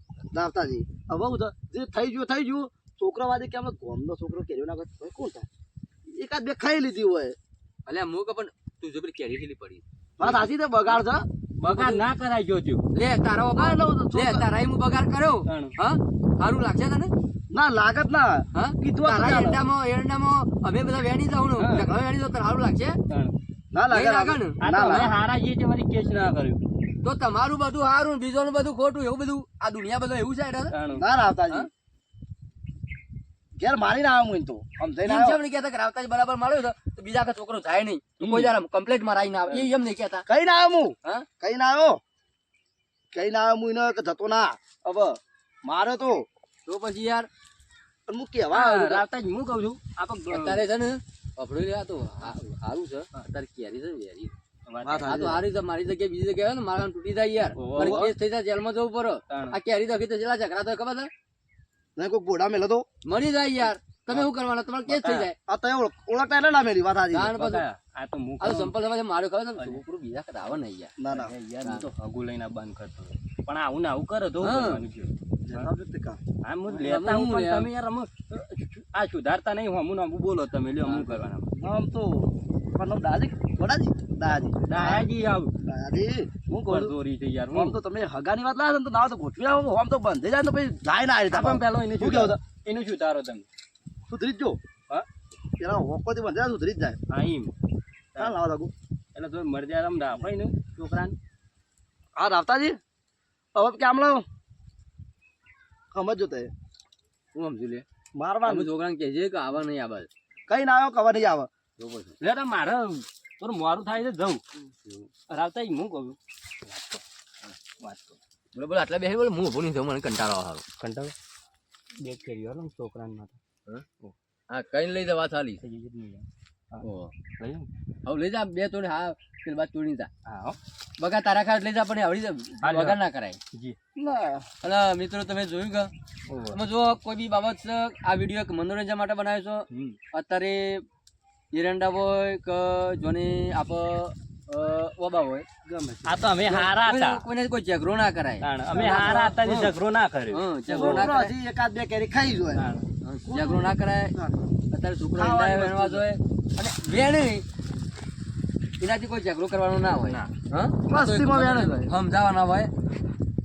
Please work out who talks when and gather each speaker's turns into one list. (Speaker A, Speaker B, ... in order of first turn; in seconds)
Speaker A: 0.3-5.5, 6.1-7.4, 10.2-11.3, 13.5-14.5, 17.5-19.6, 23.7-25.1, 30.9-31.7, 33.6-35.4, 40.3-42.0, 43.1-46.3, 48.1-49.0, 54.8-55.4, 62.0-62.8, 65.5-67.3, 71.0-71.3, 75.5-76.2, 80.9-85.1, 85.6-87.0, 87.5-92.4, 94.1-94.6, 95.6-97.0, 98.2-98.7, 102.2-102.8, 103.5-104.2, 105.9-106.5, 108.1-108.7, 110.5-111.5, 133.9-134.5, 145.6-146.2, 148.7-149.7, 150.7-152.7, 153.3-154.4, 155.2-156.0, 160.9-161.9
Speaker B: 7.9-9.8, 11.6-12.0, 12.9-17.1, 18.5-23.0, 23.9-25.1, 27.0-30.7, 35.0-40.2, 46.7-47.3, 50.3-54.3, 55.0-61.1, 63.0-65.3, 67.1-67.6, 68.4-70.9, 74.4-74.8, 76.7-77.7, 107.3-107.8, 108.5-110.1, 111.8-112.1, 118.5-120.6, 124.5-125.6, 126.8-127.1, 128.0-130.1, 131.0-133.4, 134.6-135.9, 136.5-140.8, 141.5-145.4, 146.5-149.5, 150.3-151.3, 153.0-154.2, 154.7-157.4, 158.8-162.7
Speaker C: 10.2-10.5, 11.6-12.8, 15.5-15.7, 21.6-21.9, 23.1-23.3, 24.6-26.6, 30.7-31.0, 38.2-38.5, 48.5-50.6, 54.7-55.1, 57.5-58.1, 59.3-59.6, 64.9-65.3, 67.3-68.7, 71.1-75.7, 76.4-81.5, 84.7-85.5, 86.7-87.7, 91.3-93.5, 97.1-97.5, 99.1-101.2, 112.2-117.0, 117.8-118.2, 120.8-121.1, 122.0-123.4, 125.6-126.8, 127.4-127.7, 130.2-130.6, 132.6-133.0, 136.3-136.6, 139.7-140.0, 146.0-147.2, 148.4-151.1, 152.5-152.8, 159.9-160.3